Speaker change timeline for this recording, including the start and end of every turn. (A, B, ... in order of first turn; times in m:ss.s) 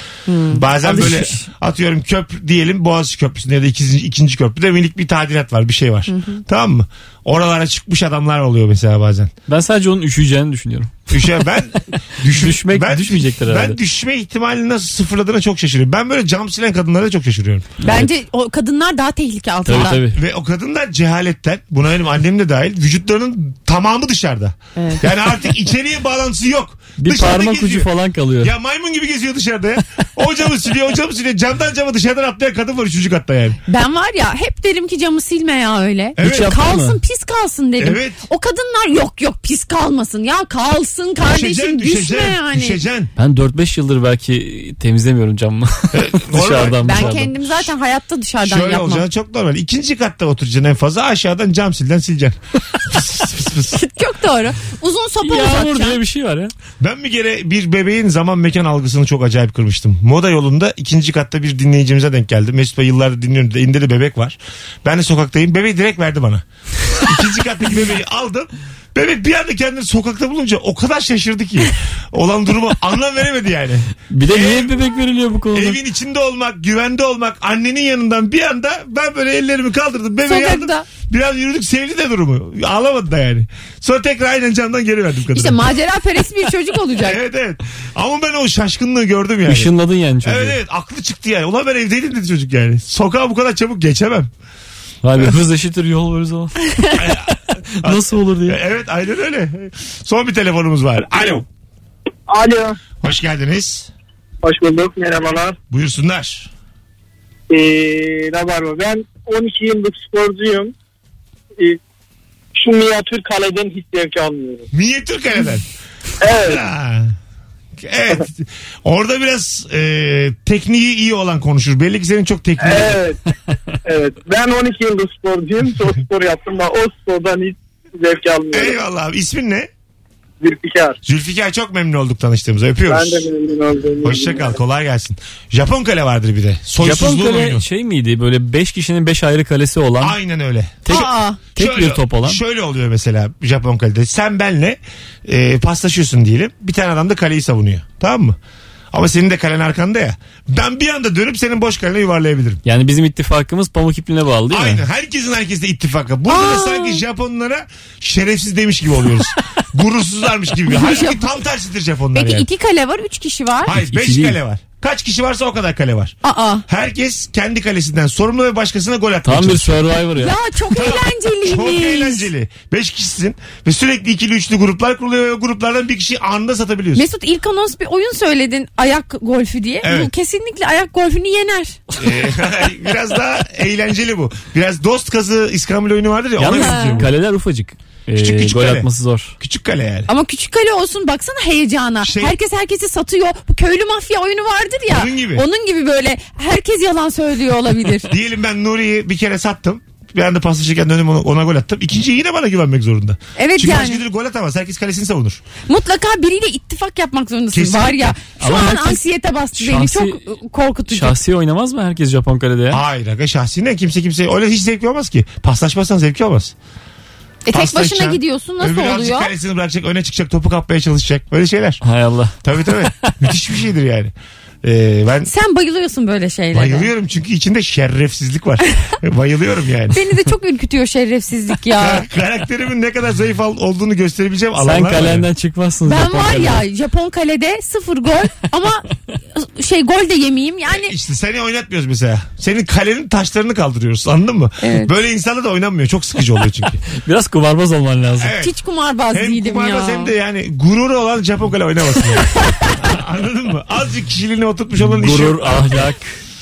0:00.3-0:01.5 A
0:00.5-0:09.3 B
0:01.0-0:01.2 C
0:06.1-0:06.4 A
0:09.5-0:11.4 C
0:11.1-0:17.7 B
0:12.2-0:13.8 C
0:17.8-0:18.1 C
0:17.8-0:20.0 A
0:19.6-0:20.2 C
0:19.7-0:27.9 B
0:24.8-0:25.0 A
0:27.0-0:28.5 C
0:28.4-0:33.6 B
0:33.7-0:42.8 A
0:36.2-0:36.5 B
0:36.2-0:37.0 C
0:37.8-0:38.2 B
0:41.2-0:43.1 B
0:43.2-0:47.3 C
0:45.9-0:47.5 B
0:46.8-0:49.0 A
0:48.4-0:53.8 B
0:53.7-0:56.0 A
0:55.2-0:56.5 C
0:56.8-1:14.8 B
1:14.1-1:15.8 C
1:15.5-1:25.6 B
1:20.2-1:20.8 A
1:25.3-1:27.2 A
1:27.0-1:29.7 B
1:29.4-1:30.6 C
1:30.2-1:34.3 B
1:35.0-1:37.2 C
1:37.0-1:41.4 B
1:37.8-1:38.6 C
1:42.3-1:42.8 D
1:43.0-1:43.9 B
1:44.4-1:45.6 D
1:45.7-1:46.5 B
1:47.5-1:50.7 D
1:52.6-1:54.7 D
1:54.7-1:55.6 B
1:56.2-1:56.6 D
1:56.4-1:57.1 B
1:57.8-2:03.0 B
2:02.6-2:03.2 D
2:03.8-2:08.8 D
2:08.5-2:09.7 B
2:10.4-2:11.0 D
2:11.0-2:13.3 B
2:12.9-2:14.6 D
2:14.0-2:17.6 B
2:16.8-2:20.2 C
2:20.0-2:20.9 B
2:20.8-2:22.4 C
2:20.9-2:21.4 A
2:21.6-2:28.4 B
2:28.9-2:32.6 B
2:32.6-2:34.8 C
2:34.5-2:42.5 B
2:36.3-2:37.0 A
2:40.7-2:41.2 A
2:42.1-2:43.7 A
2:43.6-2:46.2 B
2:43.7-2:44.4 C
2:46.2-2:46.6 A
2:46.7-2:49.8 B
2:49.2-2:50.3 C
2:50.2-2:52.3 A
2:50.7-2:57.0 B
2:56.9-3:01.8 A
2:59.8-3:00.1 B
3:02.0-3:07.1 B
3:06.4-3:09.3 C
3:06.5-3:07.0 A
3:08.1-3:08.9 B
3:09.4-3:10.1 B
3:10.1-3:18.1 A
3:12.0-3:12.3 B
3:14.9-3:15.4 B
3:18.1-3:25.4 B
3:23.4-3:24.0 A
3:25.7-3:31.1 A
3:27.5-3:28.2 B
3:28.4-3:29.0 C
3:29.6-3:30.2 C
3:30.9-3:32.8 C
3:32.7-3:36.5 B
3:37.4-3:39.3 A
3:37.5-3:41.8 B
3:41.8-3:43.2 C
3:42.4-3:45.3 B
3:45.2-3:46.9 A
3:46.5-3:50.0 B
3:49.9-3:52.1 A
3:51.8-3:55.3 B
3:54.6-3:56.6 C
3:55.8-4:00.9 A
4:00.7-4:06.8 B
4:04.6-4:04.9 A
4:06.9-4:08.3 C
4:08.2-4:08.5 B
4:08.4-4:10.1 A
4:09.1-4:15.8 B
4:12.3-4:12.8 A
4:14.8-4:16.1 C